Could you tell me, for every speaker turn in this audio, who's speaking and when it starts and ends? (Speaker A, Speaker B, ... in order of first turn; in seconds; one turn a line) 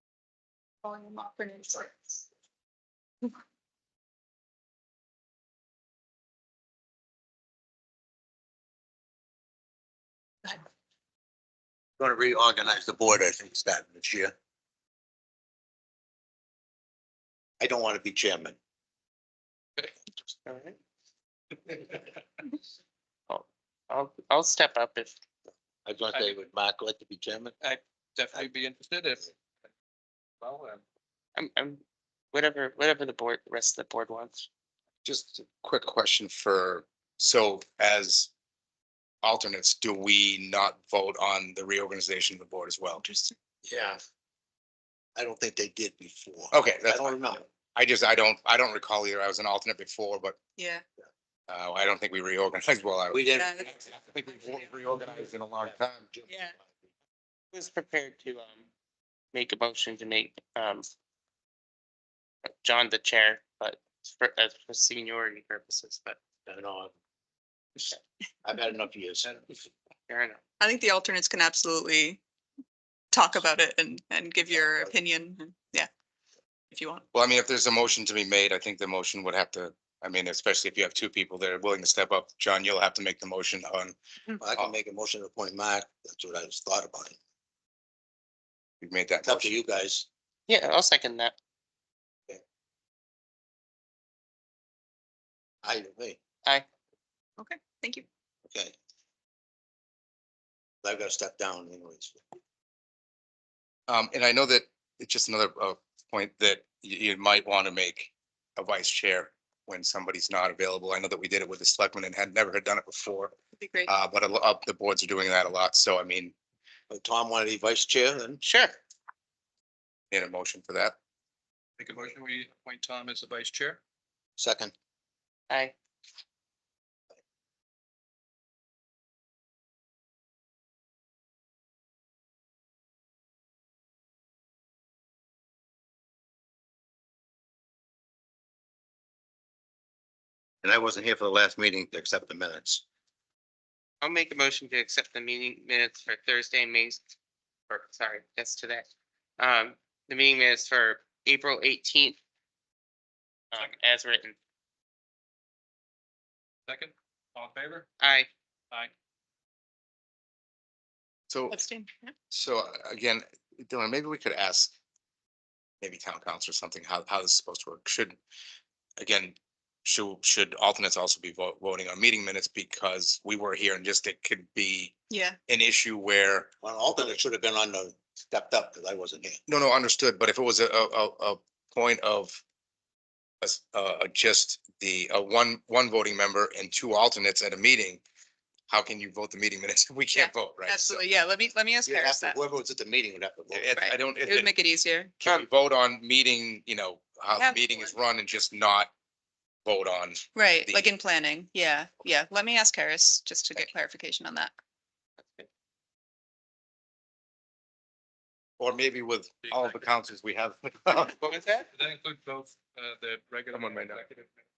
Speaker A: 0.8-2.2
Speaker B: 12.0-14.3
Speaker B: 17.6-18.6
Speaker C: 20.5-20.8
Speaker C: 23.3-25.1
Speaker B: 25.9-27.5
Speaker D: 27.6-29.3
Speaker D: 30.4-30.8
Speaker C: 31.4-31.8
Speaker C: 32.3-34.5
Speaker E: 35.0-38.3
Speaker E: 39.2-43.0
Speaker A: 43.0-43.3
Speaker B: 43.6-44.0
Speaker B: 45.1-47.5
Speaker E: 46.5-50.4
Speaker A: 50.6-50.8
Speaker E: 51.5-56.1
Speaker B: 53.1-53.5
Speaker A: 53.4-53.7
Speaker B: 55.6-56.8
Speaker A: 56.3-56.5
Speaker C: 57.5-58.7
Speaker C: 59.3-60.9
Speaker C: 62.5-66.2
Speaker B: 66.5-66.9
Speaker B: 68.4-69.4
Speaker C: 70.1-70.4
Speaker A: 70.6-72.2
Speaker A: 73.1-75.9
Speaker A: 76.7-77.0
Speaker E: 77.1-84.0
Speaker B: 84.4-87.2
Speaker E: 88.8-89.6
Speaker B: 89.3-90.1
Speaker C: 90.5-91.3
Speaker B: 95.6-96.2
Speaker A: 97.4-98.1
Speaker B: 98.5-98.8
Speaker B: 100.8-102.2
Speaker E: 103.9-113.3
Speaker A: 113.6-113.9
Speaker E: 113.9-116.3
Speaker B: 116.9-118.4
Speaker C: 118.4-118.8
Speaker E: 120.1-121.0
Speaker D: 121.8-123.8
Speaker B: 124.4-124.7
Speaker B: 140.6-142.8
Speaker C: 144.0-147.0
Speaker C: 147.7-148.9
Speaker C: 149.4-152.2
Speaker C: 153.5-154.4
Speaker D: 156.7-157.9
Speaker C: 158.0-158.3
Speaker E: 161.3-161.6
Speaker A: 161.5-162.1
Speaker E: 162.3-164.7
Speaker E: 165.8-168.2
Speaker E: 169.0-174.9
Speaker A: 175.1-175.4
Speaker E: 175.5-176.5
Speaker B: 176.6-179.4
Speaker E: 179.5-182.4
Speaker E: 183.4-188.0
Speaker E: 188.7-191.0
Speaker A: 190.1-192.4
Speaker B: 191.9-193.7
Speaker E: 193.5-194.5
Speaker A: 193.8-195.1
Speaker E: 195.2-198.9
Speaker A: 197.3-197.9
Speaker E: 199.7-200.9
Speaker A: 200.3-204.5
Speaker C: 205.2-205.5
Speaker E: 208.6-211.2
Speaker D: 209.5-209.8
Speaker C: 211.2-211.7
Speaker D: 211.7-214.3
Speaker E: 213.5-214.0